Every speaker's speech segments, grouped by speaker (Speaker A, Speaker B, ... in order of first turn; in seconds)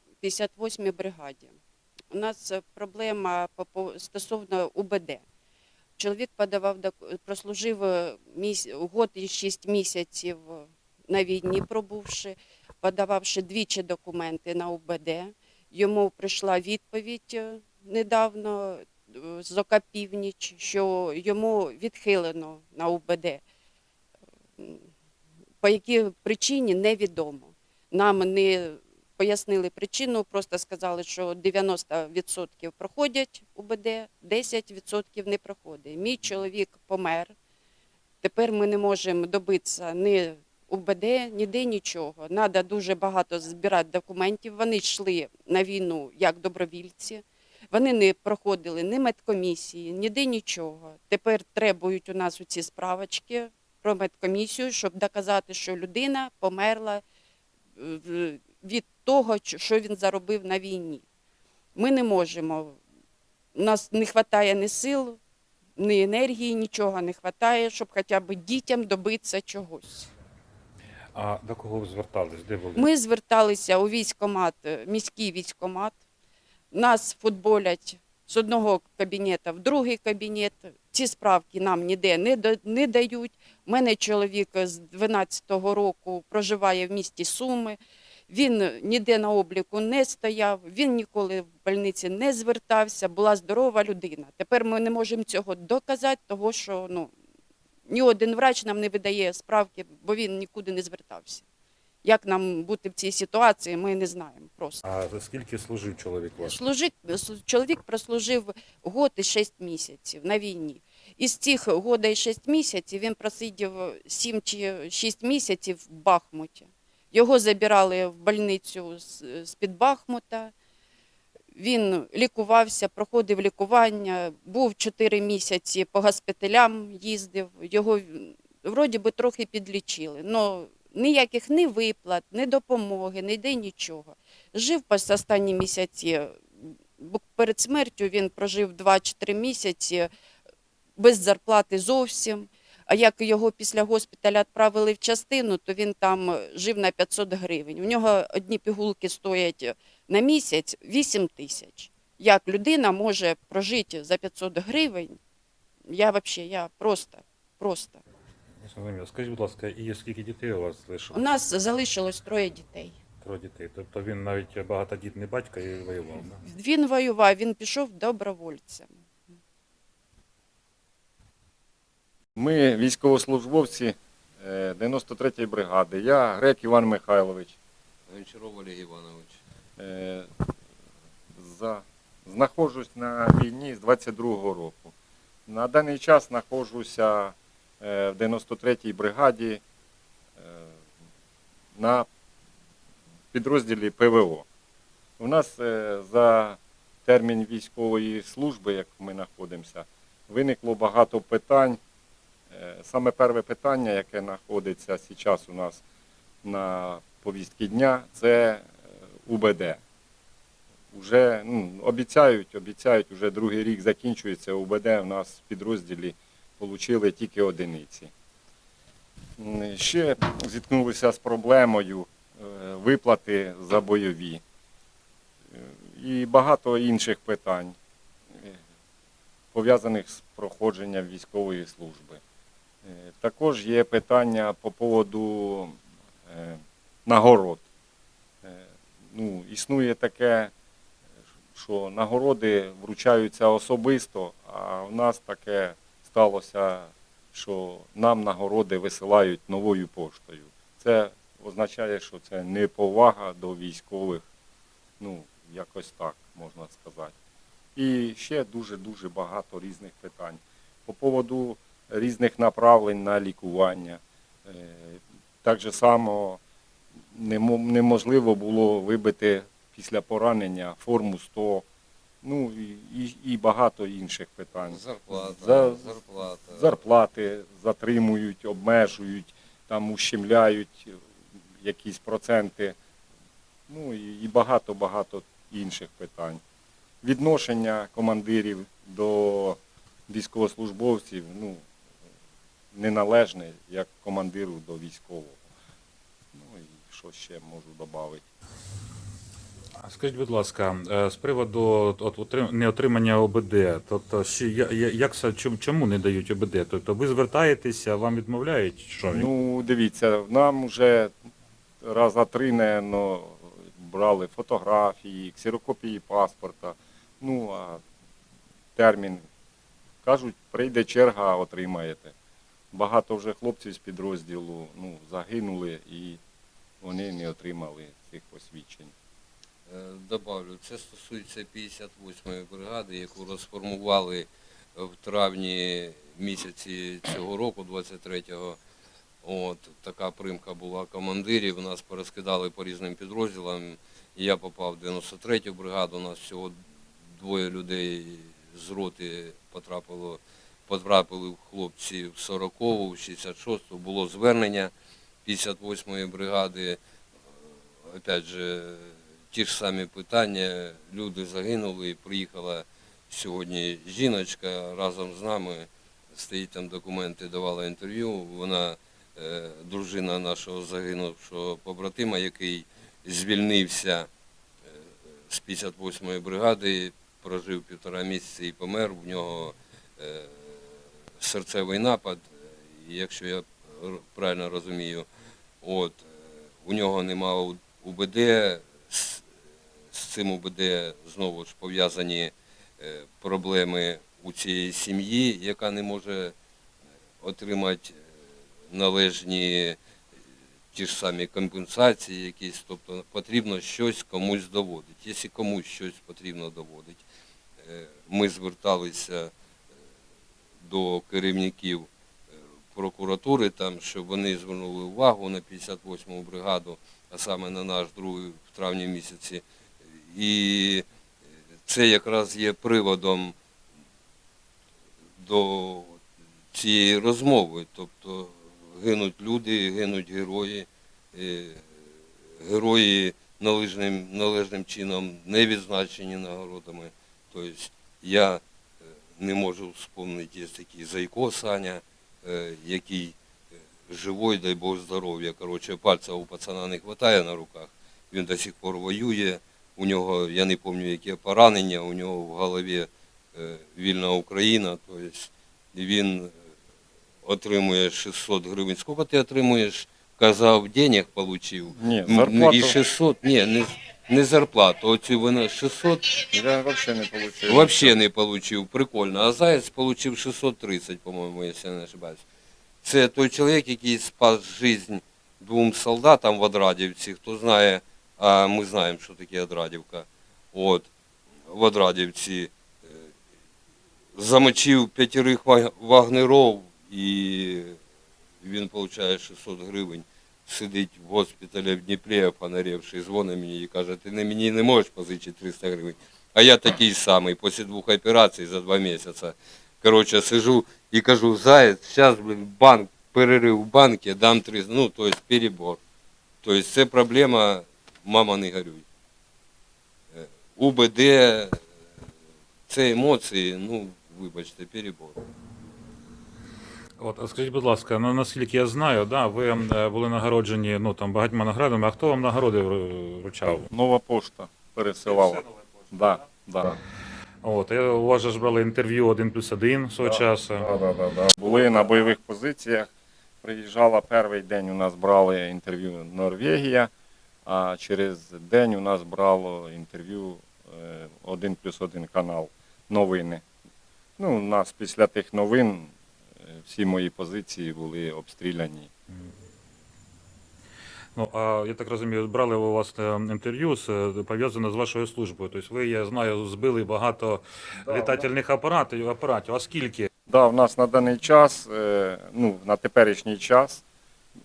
Speaker A: 0.2-1.5, 2.1-5.2, 6.0-23.4, 24.6-24.9, 25.6-37.3, 38.2-57.0, 57.8-61.0, 61.8-62.8, 63.5-65.2, 65.8-70.1, 72.8-76.0, 76.7-97.1, 97.9-101.5, 102.0-104.8, 106.4-120.5, 121.5-140.1, 141.0-155.2, 155.9-158.0, 161.1-163.0, 166.4-168.9
Speaker B: 71.2-72.9, 104.8-106.6, 158.6-161.2, 163.2-166.4, 299.8-309.3, 517.0-523.7, 527.4-530.7, 551.1-560.1
Speaker C: 172.4-177.6, 179.8-180.3, 181.4-184.9, 185.5-189.6, 190.4-190.7, 191.8-192.1, 193.3-194.5, 195.2-201.8, 202.5-205.8, 206.4-208.7, 209.3-209.8, 210.9-218.1, 219.4-224.4, 225.5-227.8, 229.5-232.2, 232.8-237.6, 238.4-240.5, 241.6-254.2, 255.0-257.1, 257.8-266.4, 267.1-271.6, 272.2-275.9, 276.5-281.0, 281.6-282.8, 283.7-286.4, 287.0-291.6, 292.7-295.4, 296.3-298.2, 309.1-311.1, 311.8-317.8, 318.8-319.2, 320.0-322.1, 322.7-326.2, 326.8-328.9, 461.7-462.8, 466.3-467.9, 523.7-526.8, 530.0-532.9, 533.4-536.9, 537.5-543.4, 544.2-545.9, 546.5-548.9, 557.9-558.3, 560.3-563.8
Speaker D: 178.1-179.4, 274.6-276.8, 329.7-338.6, 339.2-346.6, 347.1-354.7, 355.2-356.8, 357.9-374.1, 375.3-380.5, 381.2-385.1, 385.6-389.3, 389.9-396.3, 397.2-398.0, 398.7-399.8, 400.7-407.1, 407.6-409.3, 410.6-411.9, 412.7-419.4, 419.9-420.9, 421.7-423.4, 425.2-426.0, 426.5-431.7, 432.4-438.4, 439.2-443.2, 443.9-456.3, 457.2-466.3, 467.5-472.2, 472.8-480.9, 481.5-483.0, 484.1-487.8, 488.4-505.8, 506.4-508.9, 510.1-511.6, 512.7-515.2